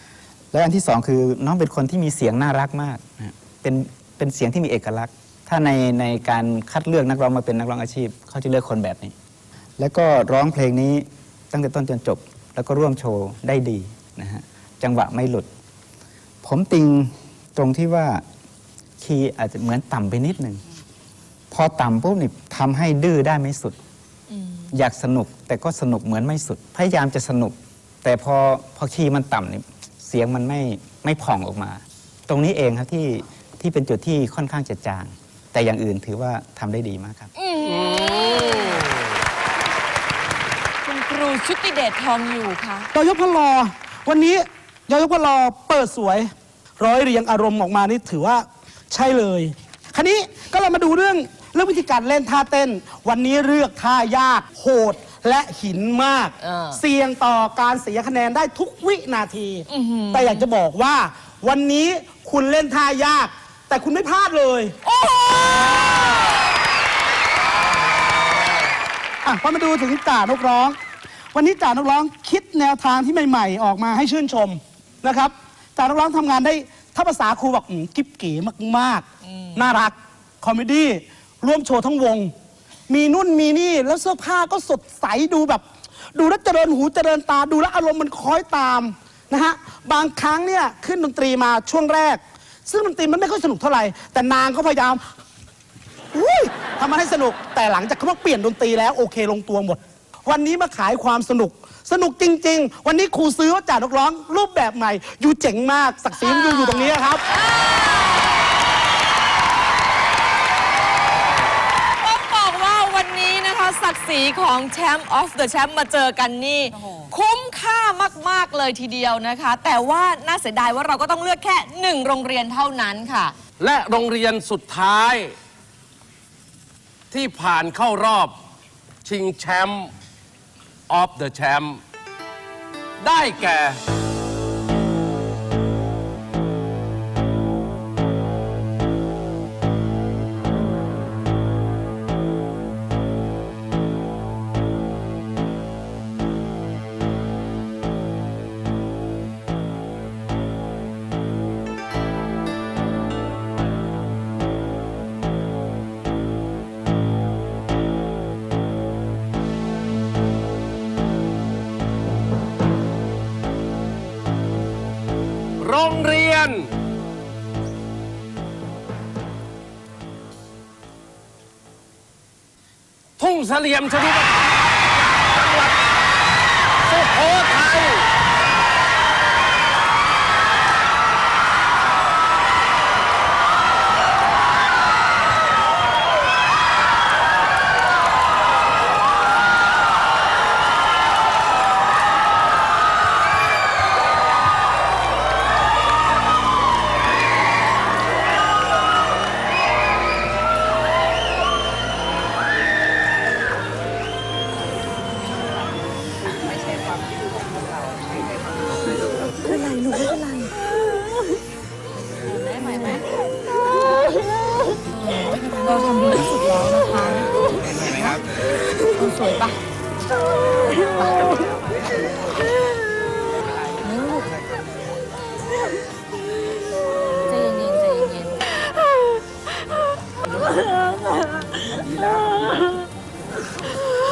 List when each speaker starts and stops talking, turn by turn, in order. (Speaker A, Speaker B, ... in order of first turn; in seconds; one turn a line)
Speaker A: 0.5-9.1
Speaker A: 9.8-15.5
Speaker A: 16.4-18.2
Speaker A: 19.0-20.6
Speaker A: 21.5-23.8
Speaker A: 24.7-37.3
Speaker B: 37.4-38.9
Speaker C: 37.7-38.9
Speaker B: 40.8-42.9
Speaker D: 42.9-64.8
Speaker B: 56.4-56.8
Speaker B: 59.7-60.5
Speaker B: 64.8-66.0
Speaker D: 69.2-70.8
Speaker D: 71.3-82.3
Speaker B: 79.3-79.6
Speaker D: 82.9-95.0
Speaker D: 96.1-107.2
Speaker B: 106.2-108.2
Speaker B: 112.0-123.3
Speaker C: 123.6-125.3
Speaker C: 127.1-128.4
Speaker C: 129.1-129.9
Speaker C: 130.9-131.8
Speaker C: 133.0-133.8
Speaker C: 165.6-166.7
Speaker C: 173.2-174.4
Speaker C: 175.3-175.8
Speaker C: 176.8-178.1
Speaker E: 209.3-210.5
Speaker B: 215.3-217.3
Speaker B: 219.0-219.6
Speaker E: 220.7-221.4
Speaker B: 223.8-224.2
Speaker B: 227.3-228.4
Speaker E: 230.3-232.8